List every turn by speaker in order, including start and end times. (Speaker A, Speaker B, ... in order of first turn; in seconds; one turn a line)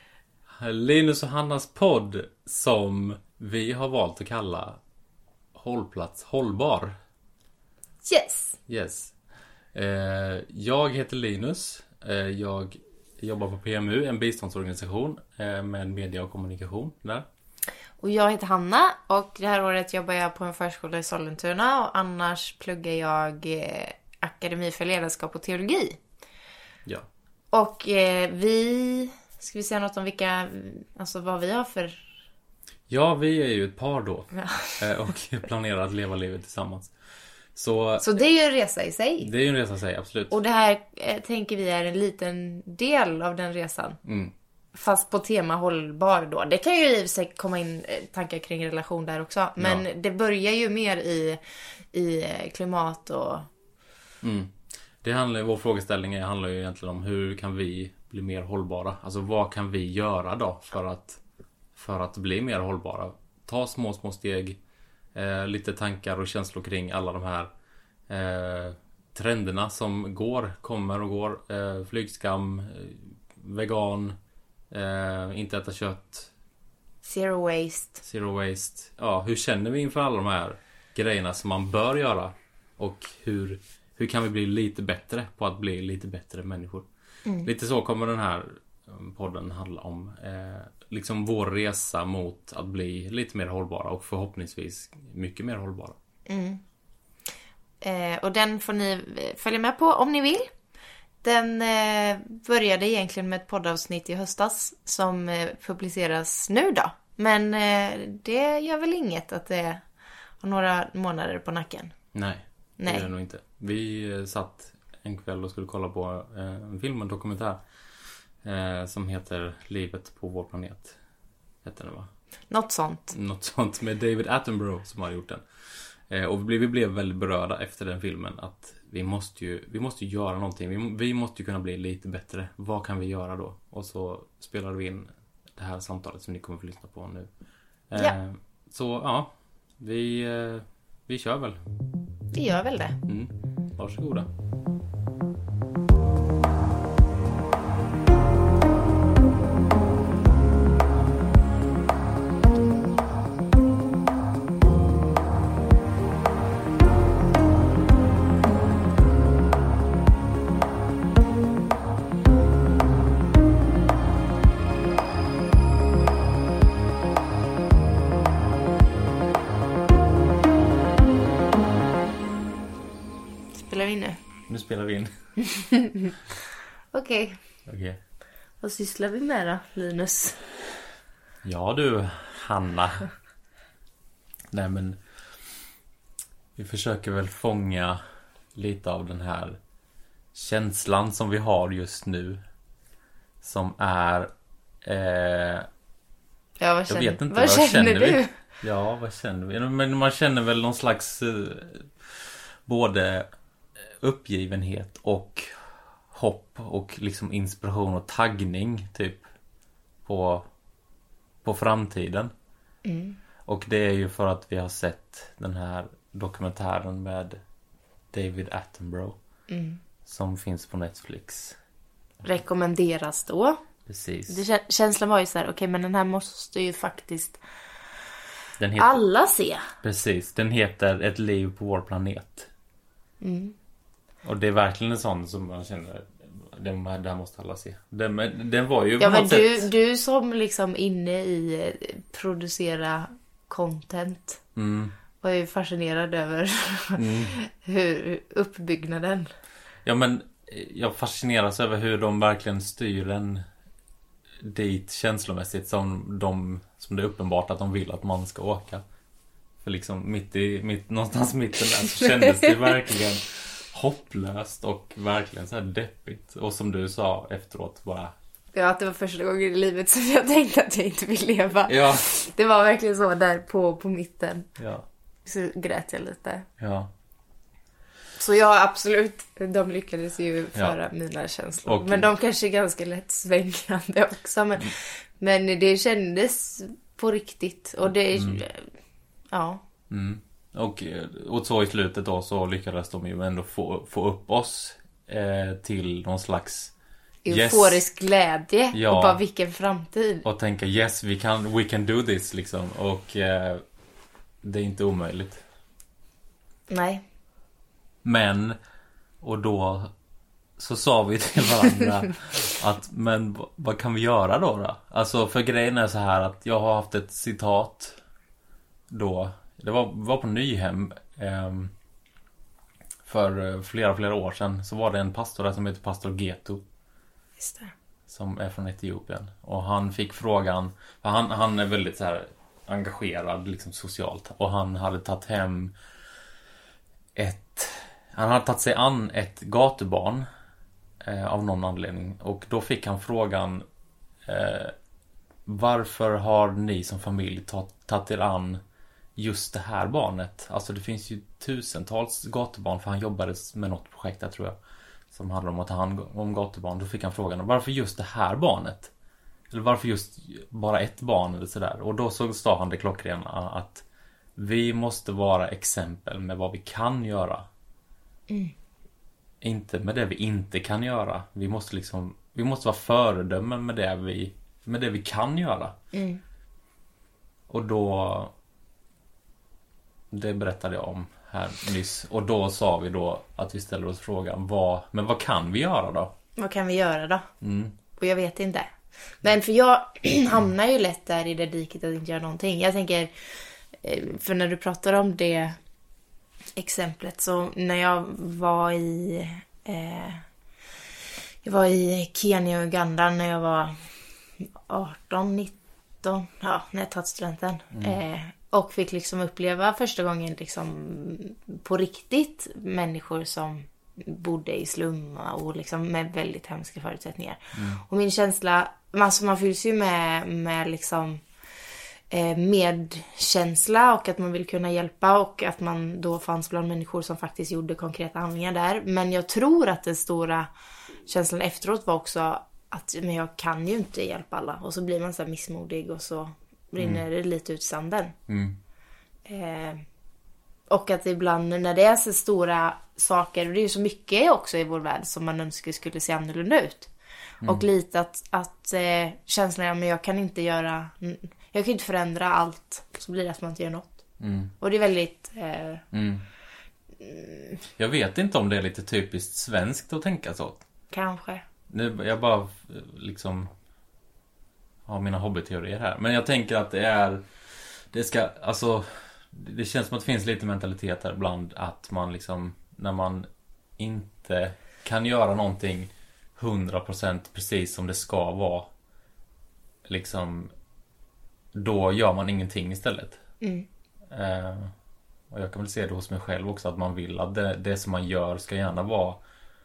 Speaker A: 0.5-4.8
Speaker A: 5.5-6.9
Speaker B: 8.0-8.6
Speaker A: 8.7-9.1
Speaker A: 9.7-17.2
Speaker B: 18.0-26.0
Speaker B: 27.5-32.0
Speaker A: 32.9-36.9
Speaker B: 34.4-34.8
Speaker A: 37.5-38.0
Speaker B: 38.0-39.3
Speaker A: 39.2-40.3
Speaker B: 40.3-44.0
Speaker A: 44.0-44.3
Speaker B: 44.7-51.4
Speaker B: 51.9-53.5
Speaker A: 54.2-61.2
Speaker A: 61.7-64.6
Speaker A: 65.1-67.5
Speaker A: 68.1-74.2
Speaker A: 74.7-76.3
Speaker B: 77.0-78.0
Speaker A: 78.0-86.9
Speaker A: 87.4-96.0
Speaker B: 96.3-96.6
Speaker B: 97.8-100.5
Speaker B: 101.2-109.8
Speaker B: 110.4-111.9
Speaker A: 112.1-117.6
Speaker B: 112.8-113.1
Speaker A: 118.4-121.0
Speaker A: 121.6-122.1
Speaker B: 122.5-123.1
Speaker A: 123.1-125.4
Speaker A: 126.1-137.3
Speaker A: 137.9-141.6
Speaker B: 142.3-143.0
Speaker A: 143.1-144.3
Speaker B: 173.5-174.2
Speaker A: 174.5-175.1
Speaker B: 175.4-176.2
Speaker B: 176.9-177.4
Speaker A: 177.7-178.0
Speaker B: 178.6-180.4
Speaker A: 181.4-183.1
Speaker A: 184.5-185.0
Speaker A: 186.6-188.0
Speaker A: 188.5-189.6
Speaker A: 190.3-192.4
Speaker A: 193.4-194.3
Speaker A: 194.8-195.7
Speaker B: 196.6-198.4
Speaker A: 196.9-203.3
Speaker A: 204.0-205.5
Speaker A: 206.1-209.2
Speaker A: 210.0-210.4
Speaker A: 211.4-212.3
Speaker B: 212.8-213.2
Speaker A: 213.4-217.4
Speaker A: 218.1-219.2
Speaker B: 219.5-219.8
Speaker A: 220.0-221.6
Speaker B: 222.2-223.6
Speaker A: 223.9-224.4
Speaker B: 224.3-227.4
Speaker A: 228.6-229.0
Speaker B: 228.8-229.7
Speaker A: 229.8-232.5
Speaker B: 233.2-233.5
Speaker A: 234.2-239.7
Speaker B: 239.0-244.4
Speaker A: 244.6-244.9
Speaker B: 245.2-249.3
Speaker A: 247.0-247.3
Speaker A: 249.8-253.4
Speaker A: 254.4-258.8
Speaker A: 259.6-268.1
Speaker B: 261.9-262.7
Speaker B: 268.5-274.5
Speaker A: 271.7-272.1
Speaker A: 274.6-274.8
Speaker B: 275.2-276.5
Speaker A: 276.6-276.9
Speaker B: 278.2-288.7
Speaker A: 281.6-282.1
Speaker A: 288.1-288.4
Speaker B: 289.3-289.6
Speaker A: 289.9-296.7
Speaker B: 297.2-300.2
Speaker A: 297.3-297.8
Speaker A: 298.7-299.2
Speaker A: 300.2-303.6
Speaker A: 304.4-305.4
Speaker B: 306.7-307.0
Speaker A: 308.0-308.6
Speaker A: 309.2-309.9
Speaker A: 310.6-318.0
Speaker A: 318.9-321.7
Speaker A: 323.0-326.6
Speaker B: 327.4-327.7
Speaker A: 328.1-335.7
Speaker A: 337.1-340.2
Speaker A: 341.0-343.6
Speaker A: 344.2-344.7
Speaker A: 345.4-348.6
Speaker A: 349.1-354.6
Speaker A: 355.1-358.9
Speaker A: 359.5-363.8
Speaker A: 364.4-367.5
Speaker A: 369.4-375.8
Speaker B: 375.9-376.2
Speaker A: 377.5-378.3
Speaker A: 380.1-386.1
Speaker B: 386.4-387.3
Speaker A: 387.4-387.7
Speaker B: 387.9-388.7
Speaker B: 389.2-393.1
Speaker B: 393.8-395.6
Speaker B: 396.6-400.2
Speaker B: 401.4-403.8
Speaker B: 404.7-421.2
Speaker A: 407.7-408.0
Speaker A: 417.5-417.8
Speaker B: 422.1-430.5
Speaker B: 431.1-438.1
Speaker A: 436.8-437.0
Speaker A: 438.3-438.6
Speaker B: 439.2-439.8
Speaker B: 440.7-446.9
Speaker B: 447.4-454.0
Speaker A: 454.2-454.5
Speaker B: 454.6-455.8
Speaker A: 455.9-456.2
Speaker B: 457.0-457.6
Speaker A: 457.8-460.6
Speaker B: 460.9-461.4
Speaker A: 461.7-463.5
Speaker A: 464.9-473.3
Speaker A: 473.8-478.7
Speaker A: 479.9-480.5
Speaker A: 481.5-483.2
Speaker B: 483.4-483.6
Speaker A: 484.1-484.7
Speaker A: 485.3-489.2